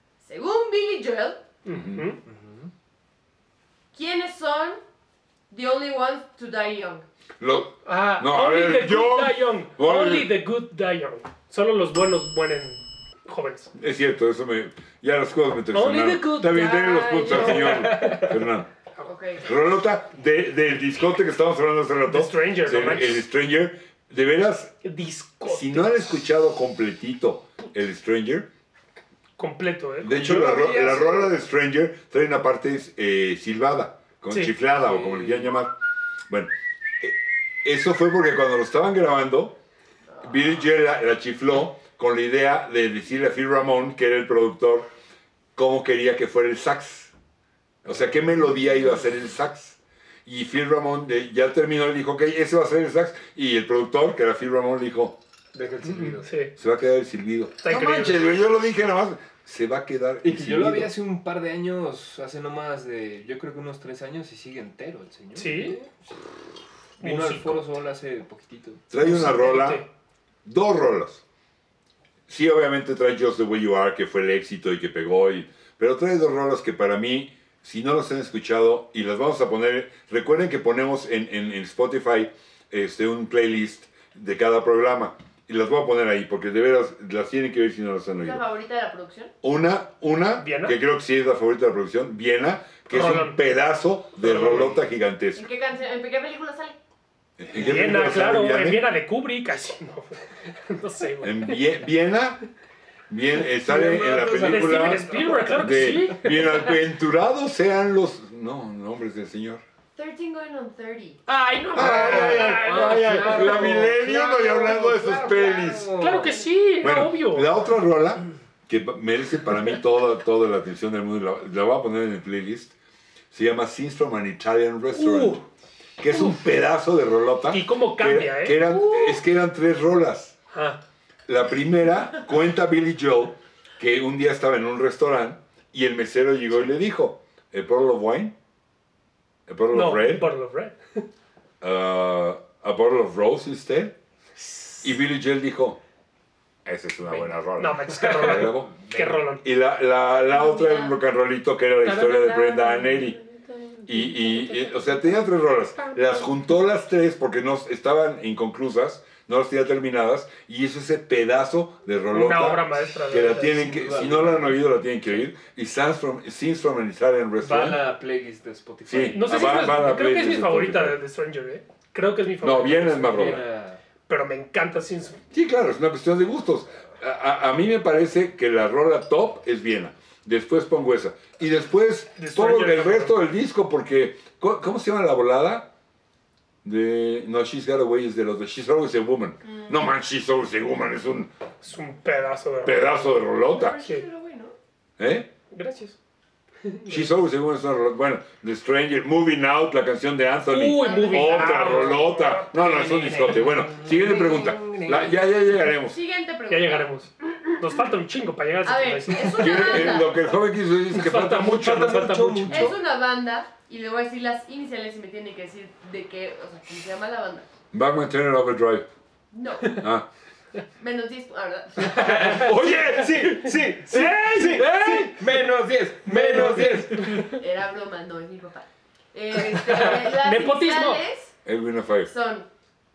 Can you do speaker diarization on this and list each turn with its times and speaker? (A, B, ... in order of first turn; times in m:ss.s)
0:00.2-0:01.4 A
0:01.6-0:02.2 B
0:01.7-0:02.0 C
0:02.2-0:02.7 D
0:03.9-0:04.8 A
0:05.5-0:07.0 A
0:07.4-0:10.3 C
0:07.8-0:13.7 B
0:13.8-0:18.7 C
0:15.7-0:18.3 B
0:17.2-0:17.5 A
0:17.4-0:18.3 D
0:19.0-0:19.6 A
0:19.4-0:24.7 C
0:22.0-0:23.2 B
0:24.8-0:26.1 B
0:25.4-0:28.5 C
0:29.4-0:31.0 B
0:30.0-0:35.7 C
0:30.2-0:31.3 D
0:34.8-0:35.5 D
0:36.3-0:39.6 C
0:40.2-0:44.9 C
0:45.6-0:47.1 C
0:47.8-0:55.2 C
0:47.8-0:48.2 D
0:55.5-0:56.3 D
0:55.8-0:56.5 B
0:56.6-1:00.9 C
0:57.6-0:58.2 B
1:00.2-1:06.0 D
1:05.4-1:05.8 B
1:07.0-1:08.8 D
1:07.0-1:07.6 B
1:08.9-1:09.8 C
1:09.0-1:09.9 B
1:10.4-1:11.2 C
1:12.3-1:28.4 C
1:28.2-1:29.3 A
1:29.4-1:35.4 C
1:30.4-1:30.8 B
1:32.9-1:33.4 B
1:34.2-1:34.7 B
1:35.3-1:36.8 A
1:37.4-1:38.8 C
1:37.5-1:41.6 B
1:41.2-1:42.4 C
1:43.1-1:49.6 C
1:43.4-1:46.1 D
1:44.2-1:46.8 B
1:50.0-1:51.2 A
1:51.3-1:53.8 B
1:51.7-1:56.0 C
1:51.8-1:56.4 D
1:55.3-1:55.7 A
1:56.0-1:57.5 B
1:56.8-2:02.7 C
2:03.3-2:05.4 C
2:04.9-2:05.4 B
2:06.0-2:10.4 C
2:07.5-2:08.7 B
2:10.5-2:10.8 B
2:11.3-2:18.3 C
2:19.5-2:20.3 C
2:19.7-2:21.0 B
2:21.6-2:24.0 C
2:24.4-2:24.9 B
2:24.8-2:25.8 C
2:26.6-2:28.7 C
2:27.1-2:29.4 B
2:28.0-2:29.2 D
2:29.4-2:33.2 C
2:30.2-2:31.0 A
2:31.8-2:36.4 B
2:33.9-2:47.8 C
2:42.1-2:43.5 B
2:43.1-2:45.2 D
2:47.4-2:49.5 D
2:48.9-2:51.0 C
2:49.1-2:53.2 B
2:52.4-2:53.4 C
2:52.9-2:53.8 D
2:54.1-2:55.2 B
2:55.3-3:05.7 C
3:02.2-3:03.1 B
3:06.6-3:11.3 C
3:09.4-3:09.8 A
3:11.6-3:13.2 B
3:12.6-3:13.8 C
3:13.4-3:14.6 A
3:15.0-3:15.3 C
3:15.5-3:16.0 B
3:16.6-3:17.1 B
3:16.9-3:26.0 C
3:20.5-3:23.5 B
3:20.8-3:21.9 A
3:23.2-3:25.3 D
3:25.9-3:27.5 A
3:26.5-3:29.9 B
3:28.6-3:30.2 A
3:29.4-3:32.1 C
3:30.9-3:32.7 B
3:31.6-3:32.8 D
3:32.5-3:37.5 A
3:37.7-3:38.9 C
3:39.3-3:39.8 A
3:39.8-3:40.1 C
3:40.8-3:42.2 A
3:41.8-3:47.3 D
3:42.0-3:43.5 C
3:42.1-3:42.5 B
3:43.9-3:44.7 B
3:44.2-3:45.2 C
3:46.1-3:47.4 B
3:47.3-3:51.3 A
3:49.8-3:51.0 B
3:51.4-3:52.1 C
3:52.0-3:52.5 A